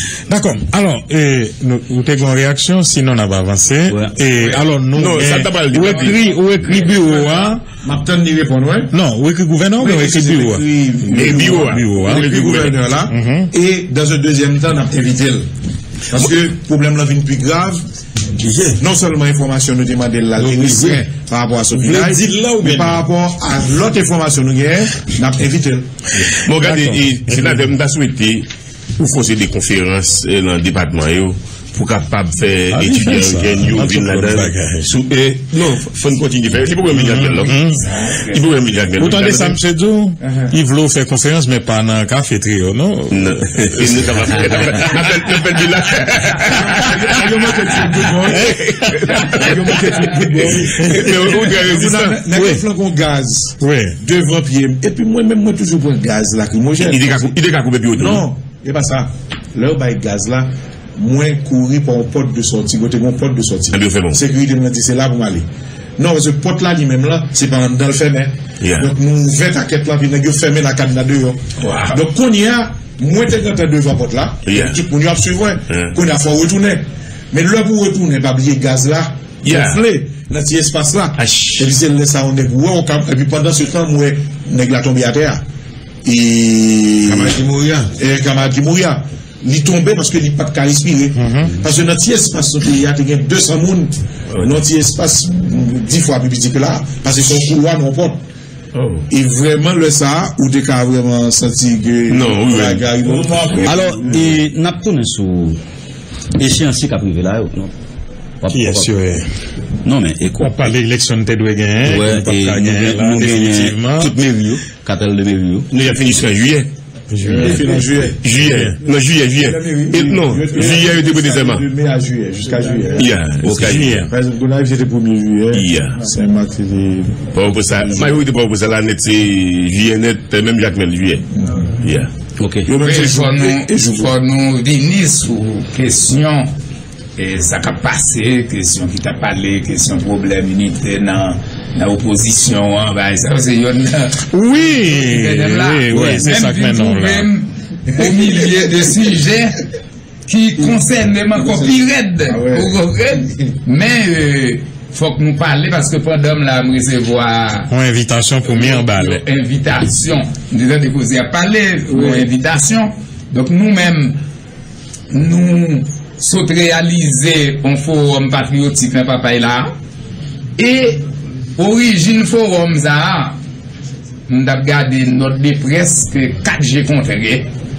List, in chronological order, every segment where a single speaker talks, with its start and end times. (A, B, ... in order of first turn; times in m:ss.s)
0:00.3-0:07.6 A
0:03.9-0:04.2 B
0:04.4-0:06.2 C
0:07.8-0:08.9 D
0:08.9-0:12.3 A
0:09.8-0:15.5 D
0:11.0-0:12.8 C
0:13.1-0:13.5 A
0:16.1-0:17.8 D
0:18.4-0:18.8 E
0:18.8-0:25.9 D
0:20.4-0:21.0 E
0:21.8-0:22.8 E
0:26.4-0:28.5 C
0:26.5-0:27.6 A
0:29.0-0:39.6 C
0:32.7-0:34.9 A
0:36.9-0:37.9 A
0:39.0-0:45.1 A
0:43.1-0:49.8 C
0:46.4-0:57.3 D
0:48.3-0:49.1 A
0:50.3-0:52.4 C
0:50.8-0:51.3 A
0:53.6-0:54.0 A
0:56.8-0:58.2 C
0:58.0-1:05.4 D
1:03.7-1:04.2 C
1:06.0-1:25.4 D
1:08.6-1:08.9 C
1:11.6-1:12.0 F
1:14.4-1:14.8 C
1:15.7-1:15.9 C
1:19.4-1:19.8 C
1:21.2-1:21.7 C
1:26.0-1:27.4 D
1:27.0-1:27.9 E
1:27.9-1:38.2 D
1:31.2-1:31.5 A
1:34.3-1:34.6 C
1:38.7-1:39.0 C
1:39.1-1:43.8 D
1:42.1-1:43.8 C
1:43.2-1:43.7 E
1:43.6-1:45.6 B
1:46.4-1:47.7 B
1:48.4-1:48.9 B
1:48.5-1:49.2 A
1:49.8-1:50.7 B
1:50.4-1:54.1 A
1:51.8-1:55.7 B
1:55.7-1:56.7 C
1:57.1-1:57.8 A
1:57.3-1:58.2 D
1:58.2-2:01.6 C
1:58.4-1:58.8 A
1:59.4-2:03.1 D
2:03.0-2:04.1 C
2:03.4-2:03.9 B
2:03.6-2:04.1 A
2:04.1-2:07.3 D
2:05.5-2:06.0 C
2:07.3-2:11.2 C
2:11.4-2:11.6 D
2:11.8-2:12.1 C
2:12.4-2:12.7 B
2:12.6-2:14.1 D
2:12.8-2:16.5 F
2:17.2-2:24.2 F
2:24.2-2:27.3 A
2:24.8-2:29.6 F
2:30.3-2:37.7 F
2:31.4-2:32.8 D
2:37.7-2:39.2 A
2:38.4-2:44.2 F
2:41.9-2:42.3 D
2:45.1-2:49.7 F
2:50.6-2:51.0 F
2:51.6-2:53.4 F
2:54.3-2:57.5 F